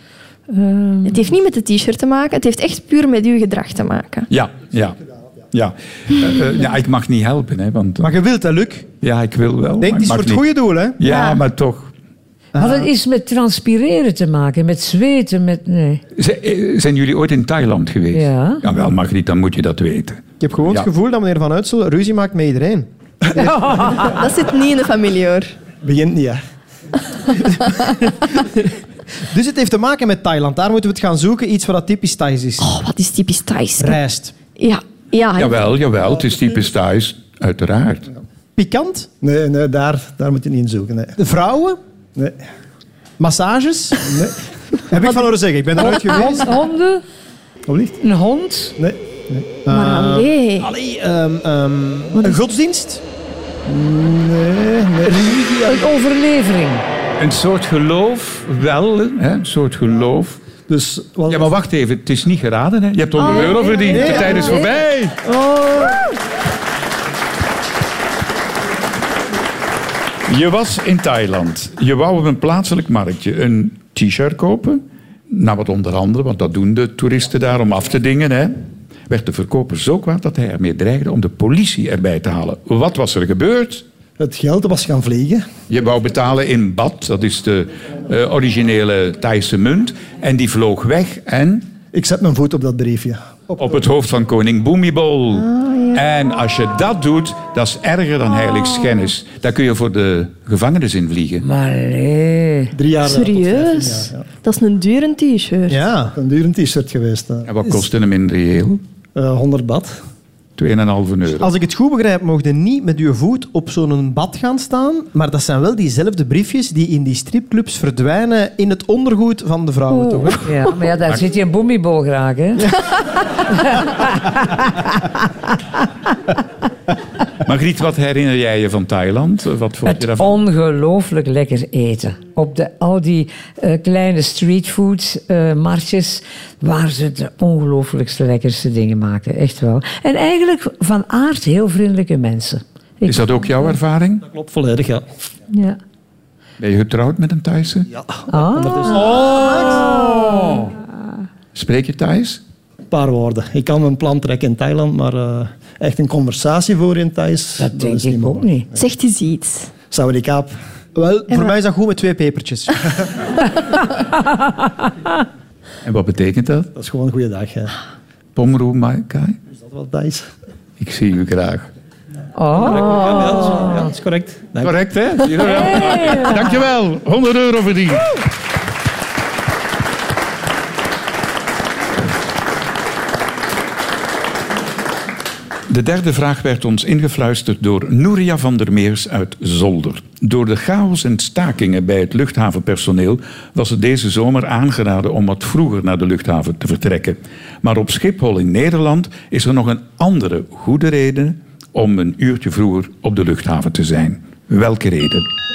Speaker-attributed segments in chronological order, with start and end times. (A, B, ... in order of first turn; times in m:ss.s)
0:00.5-0:01.2 A
0:01.1-0:04.3 B
0:04.3-0:05.0 C
0:05.5-0:08.1 C
0:08.0-0:08.9 D
0:09.0-0:10.5 C
0:09.8-0:11.0 D
0:11.0-0:11.9 C
0:11.0-0:11.4 B
0:12.5-0:12.9 D
0:12.6-0:16.0 A
0:16.2-0:20.9 C
0:18.1-0:18.6 A
0:20.4-0:22.9 D
0:23.4-0:24.1 A
0:24.1-0:25.5 B
0:25.8-0:26.4 E
0:28.4-0:28.7 D
0:29.3-0:32.7 D
0:32.6-0:34.0 B
0:33.8-0:34.4 D
0:34.5-0:35.7 B
0:35.4-0:38.1 C
0:38.6-0:39.1 D
0:39.2-0:41.2 E
0:41.2-0:41.8 D
0:42.2-0:42.4 E
0:43.2-0:44.3 D
0:44.0-0:44.3 E
0:44.9-0:46.6 D
0:45.8-0:47.0 A
0:47.7-0:48.0 E
0:48.0-0:48.7 A
0:49.6-0:53.0 D
0:49.7-0:50.7 B
0:52.2-0:52.4 B
0:53.7-0:55.4 E
0:55.0-0:55.8 D
0:55.3-0:56.8 A
0:57.2-1:00.4 C
1:00.7-1:01.5 E
1:01.3-1:05.2 C
1:03.2-1:04.6 B
1:03.9-1:04.6 D
1:10.3-1:18.5 C
1:19.1-1:23.8 C
1:24.2-1:25.4 E
1:25.7-1:31.7 C
1:31.9-1:33.6 E
1:33.6-1:41.4 C
1:35.3-1:36.0 B
1:41.4-1:42.7 A
1:42.7-1:44.2 E
1:43.0-1:45.8 B
1:45.7-1:46.2 D
1:46.1-1:47.5 E
1:47.4-1:48.8 C
1:49.1-1:50.0 E
1:50.6-1:51.5 C
1:51.4-2:00.5 D
1:59.9-2:00.3 B
2:00.4-2:02.7 A
2:03.5-2:05.2 A
2:07.4-2:10.3 C
2:09.8-2:23.2 A
2:23.0-2:24.2 C
2:24.2-2:25.0 E
2:25.5-2:25.8 A
2:26.6-2:27.9 C
2:28.0-2:29.6 E
2:28.3-2:30.6 A
2:29.1-2:30.7 C
2:31.5-2:32.4 C
2:32.9-2:38.8 E
2:37.6-2:38.7 A
2:38.8-2:39.7 B
2:39.9-2:40.5 E
2:41.0-2:43.1 D
2:45.8-2:46.7 C
2:46.7-2:47.7 E
2:48.4-2:49.4 C
2:49.6-2:50.3 E
2:50.8-2:51.7 C
2:52.4-2:53.9 A
2:52.6-2:54.7 E
2:54.6-2:58.2 C
2:55.4-2:56.6 A
3:05.7-3:25.2 C